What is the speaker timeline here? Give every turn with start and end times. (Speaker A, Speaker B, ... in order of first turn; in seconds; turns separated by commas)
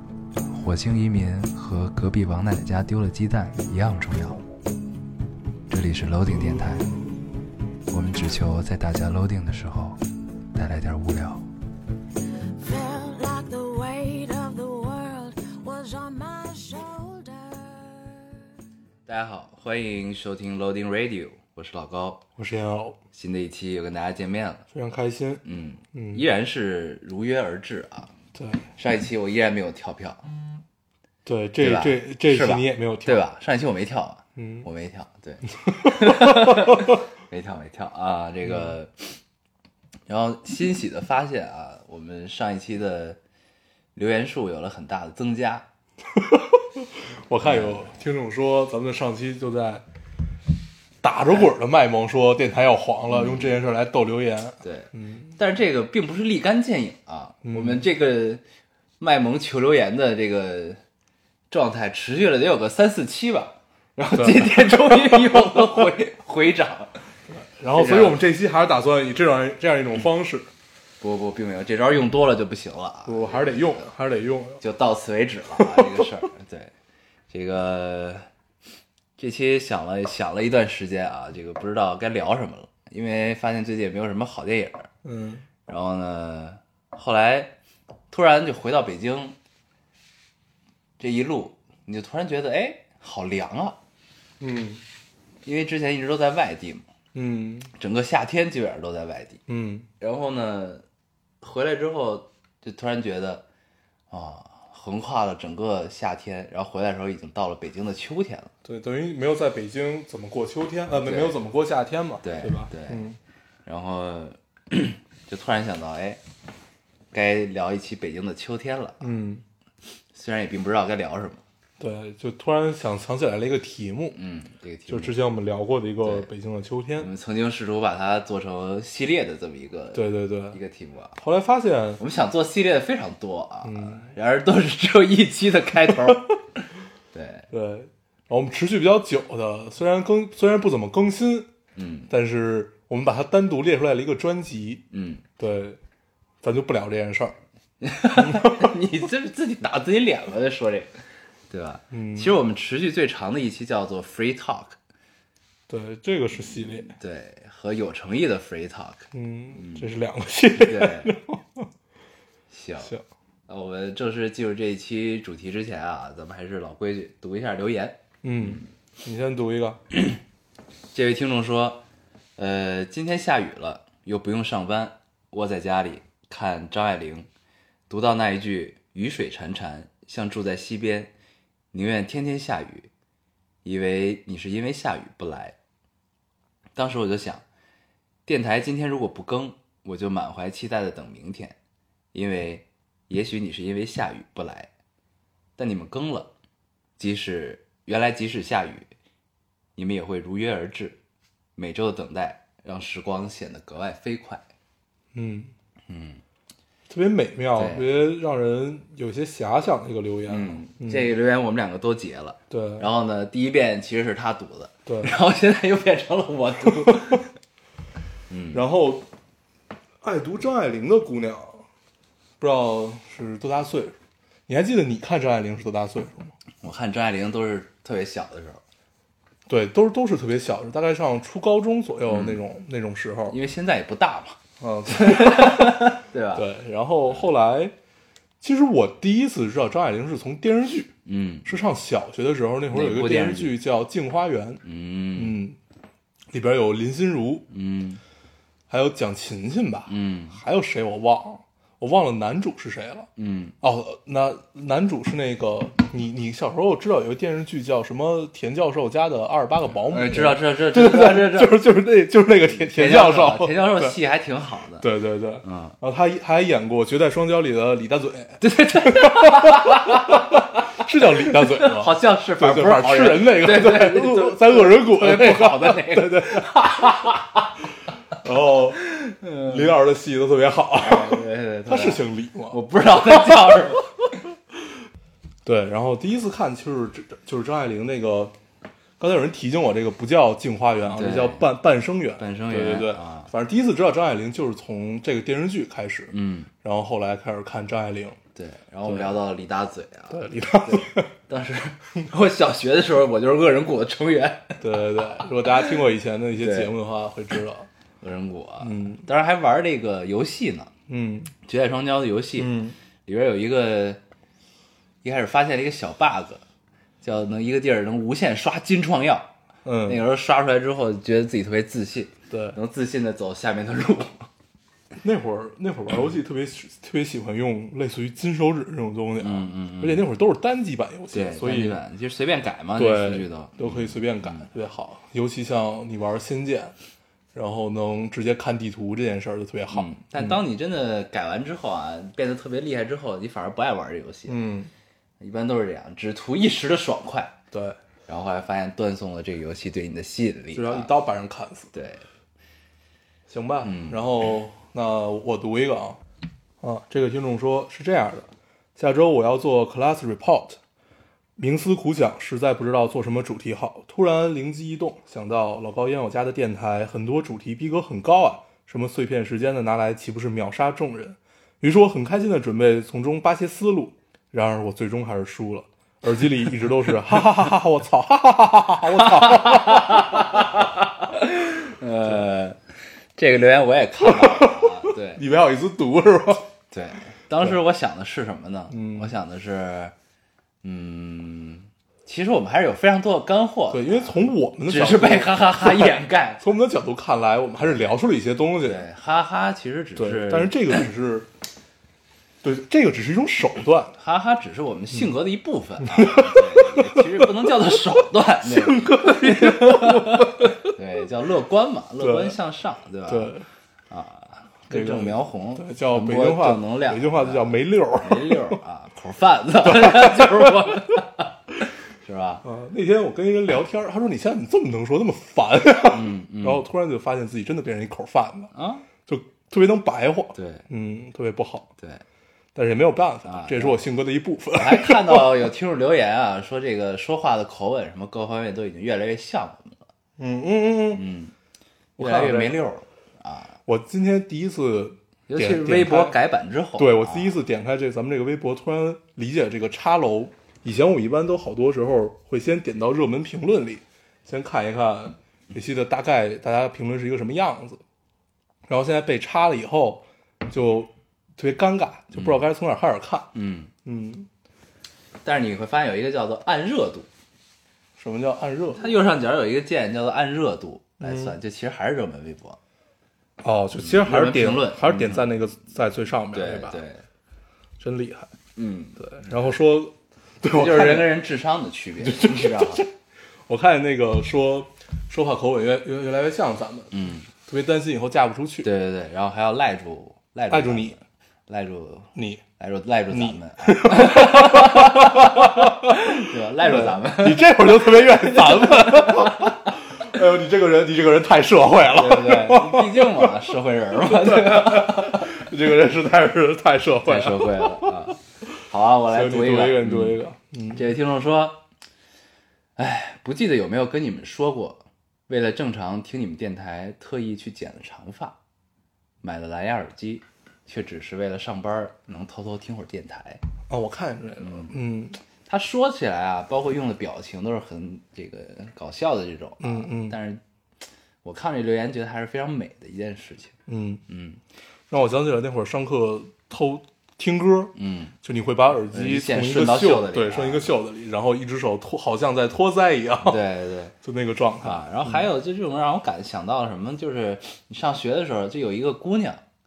Speaker A: 0.5-4.4, Speaker A: 5.7-6.9, Speaker A: 7.9-10.0, Speaker A: 10.6-11.5, Speaker B: 12.6-18.4, Speaker A: 19.1-22.2, Speaker C: 22.4-23.0, Speaker A: 23.1-24.6, Speaker C: 24.7-26.2, Speaker A: 25.4-28.1, Speaker C: 28.4-28.7, Speaker A: 28.8-30.2, Speaker C: 31.2-33.2, Speaker A: 31.6-39.2, Speaker C: 34.4-34.7, Speaker C: 35.9-36.8, Speaker A: 40.1-43.2, Speaker A: 44.0-45.7, Speaker C: 46.1-49.9, Speaker A: 47.4-47.9, Speaker C: 51.0-55.4, Speaker A: 53.1-53.5, Speaker A: 54.6-58.4, Speaker C: 57.5-57.9, Speaker A: 59.0-60.8, Speaker A: 61.5-67.0, Speaker C: 64.1-65.9, Speaker C: 67.3-70.5, Speaker A: 67.7-68.2, Speaker A: 71.0-73.5, Speaker C: 73.1-74.6, Speaker A: 74.6-76.7, Speaker C: 75.5-76.1, Speaker A: 77.3-78.3, Speaker A: 79.2-84.9, Speaker C: 85.0-85.5, Speaker A: 85.7-87.5, Speaker A: 88.1-89.4, Speaker A: 91.0-93.8, Speaker C: 94.4-94.8, Speaker A: 95.4-96.9, Speaker C: 97.1-97.7, Speaker A: 97.8-99.4, Speaker C: 99.5-99.9, Speaker A: 100.0-100.8, Speaker A: 101.4-103.5, Speaker A: 104.1-108.5, Speaker C: 108.7-113.2, Speaker A: 110.9-111.4, Speaker A: 112.2-113.0, Speaker A: 113.7-116.2, Speaker A: 117.1-119.1, Speaker C: 119.0-119.4, Speaker A: 120.1-121.4, Speaker C: 121.8-124.2, Speaker A: 124.2-125.1, Speaker C: 124.9-127.1, Speaker A: 126.0-126.3, Speaker A: 127.0-131.2, Speaker C: 129.9-130.6, Speaker C: 131.2-132.0, Speaker A: 132.0-136.4, Speaker C: 133.6-134.1, Speaker C: 135.9-136.2, Speaker A: 137.1-137.5, Speaker C: 137.5-141.5, Speaker A: 141.8-142.1, Speaker C: 142.1-144.8, Speaker A: 144.9-145.2, Speaker C: 145.4-145.8, Speaker C: 146.4-147.4, Speaker A: 147.8-150.9, Speaker C: 148.2-148.7, Speaker A: 151.5-154.8, Speaker C: 151.9-152.4, Speaker C: 155.7-156.9, Speaker A: 156.8-159.9, Speaker C: 159.1-161.7, Speaker A: 160.6-161.1, Speaker A: 162.5-163.0, Speaker A: 163.5-168.7, Speaker C: 168.2-169.8, Speaker A: 170.9-171.8, Speaker A: 172.4-177.3, Speaker A: 177.9-181.1, Speaker A: 181.7-182.9, Speaker A: 183.6-185.6, Speaker A: 186.8-187.4, Speaker A: 188.3-191.6, Speaker A: 192.1-194.7, Speaker A: 195.6-196.3, Speaker A: 197.0-198.9, Speaker A: 199.8-201.0, Speaker A: 201.6-204.4, Speaker C: 205.1-205.5, Speaker A: 205.9-206.2, Speaker C: 206.9-211.1, Speaker A: 207.6-207.9, Speaker A: 210.3-217.3, Speaker C: 212.5-212.9, Speaker C: 214.9-215.1, Speaker A: 218.3-218.6, Speaker C: 218.5-219.1, Speaker C: 220.0-221.7, Speaker C: 222.4-223.9, Speaker C: 224.5-226.3, Speaker A: 226.6-228.6, Speaker C: 229.5-233.4, Speaker A: 232.1-232.4, Speaker A: 233.3-236.5, Speaker C: 234.6-237.7, Speaker C: 238.4-240.9, Speaker A: 241.1-241.5, Speaker C: 241.4-244.6, Speaker A: 242.7-243.6, Speaker A: 244.6-245.4, Speaker C: 245.2-245.6, Speaker C: 246.3-247.5, Speaker A: 247.5-248.0, Speaker C: 248.7-253.1, Speaker A: 249.9-250.4, Speaker A: 253.2-253.6, Speaker C: 253.6-264.0, Speaker A: 259.9-261.6, Speaker A: 262.6-264.9, Speaker C: 264.8-277.1, Speaker A: 265.4-265.8, Speaker A: 268.4-277.5, Speaker C: 278.2-278.8, Speaker A: 278.9-279.7, Speaker C: 279.4-283.5, Speaker A: 280.8-283.9, Speaker C: 285.4-288.4, Speaker C: 289.0-298.2, Speaker A: 290.9-291.4, Speaker A: 292.2-293.3, Speaker A: 296.1-296.5, Speaker A: 298.4-305.3, Speaker C: 298.9-299.1, Speaker C: 300.1-301.1, Speaker C: 304.6-307.7, Speaker A: 306.4-306.7, Speaker A: 308.0-310.7, Speaker C: 308.6-309.1, Speaker C: 310.9-311.3, Speaker A: 311.4-314.0, Speaker C: 312.4-312.8, Speaker A: 315.0-316.4, Speaker A: 317.0-319.3, Speaker C: 319.6-320.0, Speaker A: 319.9-324.3, Speaker C: 322.3-322.6, Speaker C: 325.0-331.8, Speaker A: 329.2-330.1, Speaker A: 331.1-334.5, Speaker C: 332.8-336.7, Speaker C: 337.3-340.4, Speaker A: 339.7-344.4, Speaker C: 344.3-344.7, Speaker A: 345.2-347.4, Speaker C: 347.5-347.8, Speaker A: 348.1-350.9, Speaker C: 350.5-351.7, Speaker A: 351.7-352.1, Speaker C: 353.3-356.0, Speaker A: 353.6-354.0, Speaker C: 356.6-360.6, Speaker C: 361.4-380.4, Speaker A: 379.0-385.2, Speaker C: 384.0-386.5, Speaker A: 386.7-389.9, Speaker C: 388.7-389.1, Speaker A: 390.6-396.4, Speaker C: 393.7-398.9, Speaker A: 398.6-400.9, Speaker C: 400.0-401.3, Speaker C: 402.4-403.9, Speaker A: 404.0-413.3, Speaker C: 405.8-407.7, Speaker C: 408.4-410.7, Speaker C: 412.0-412.4, Speaker C: 413.1-413.4, Speaker A: 413.9-421.3, Speaker C: 414.7-418.6, Speaker C: 419.6-420.8, Speaker A: 422.0-422.4, Speaker C: 422.4-428.5, Speaker A: 425.9-426.6, Speaker A: 428.5-428.9, Speaker C: 429.1-431.7, Speaker A: 430.4-430.6, Speaker A: 431.8-432.0, Speaker C: 432.6-435.5, Speaker A: 433.2-433.8, Speaker A: 434.5-439.9, Speaker C: 440.2-441.0, Speaker A: 440.9-441.3, Speaker C: 442.0-442.6, Speaker A: 442.0-443.6, Speaker C: 443.7-446.2, Speaker A: 445.3-447.3, Speaker C: 446.8-457.8, Speaker C: 458.7-463.3, Speaker A: 462.1-462.4, Speaker A: 463.3-463.7, Speaker C: 463.9-464.3, Speaker A: 465.2-467.1, Speaker C: 468.0-468.9, Speaker A: 468.8-472.6, Speaker C: 471.0-471.3, Speaker C: 473.4-476.8, Speaker A: 473.8-475.3, Speaker A: 476.3-477.0, Speaker C: 477.8-478.3, Speaker A: 478.6-479.3, Speaker C: 479.0-481.2, Speaker A: 480.5-482.9, Speaker C: 482.0-482.9, Speaker C: 483.5-488.7, Speaker A: 486.9-487.3, Speaker A: 488.6-499.7, Speaker C: 490.5-491.0, Speaker C: 492.1-492.4, Speaker C: 493.1-503.4, Speaker A: 501.9-505.4, Speaker C: 504.0-508.0, Speaker A: 507.0-510.2, Speaker C: 509.1-511.0, Speaker A: 510.7-511.6, Speaker A: 512.8-518.4, Speaker A: 519.2-523.4, Speaker C: 523.7-525.2, Speaker A: 524.4-524.8, Speaker A: 525.5-533.5, Speaker C: 529.6-530.2, Speaker C: 533.7-534.0, Speaker A: 534.1-534.4, Speaker C: 534.9-543.4, Speaker A: 537.8-538.1, Speaker A: 538.9-540.7, Speaker A: 543.2-543.9, Speaker C: 544.0-545.3, Speaker A: 544.6-549.4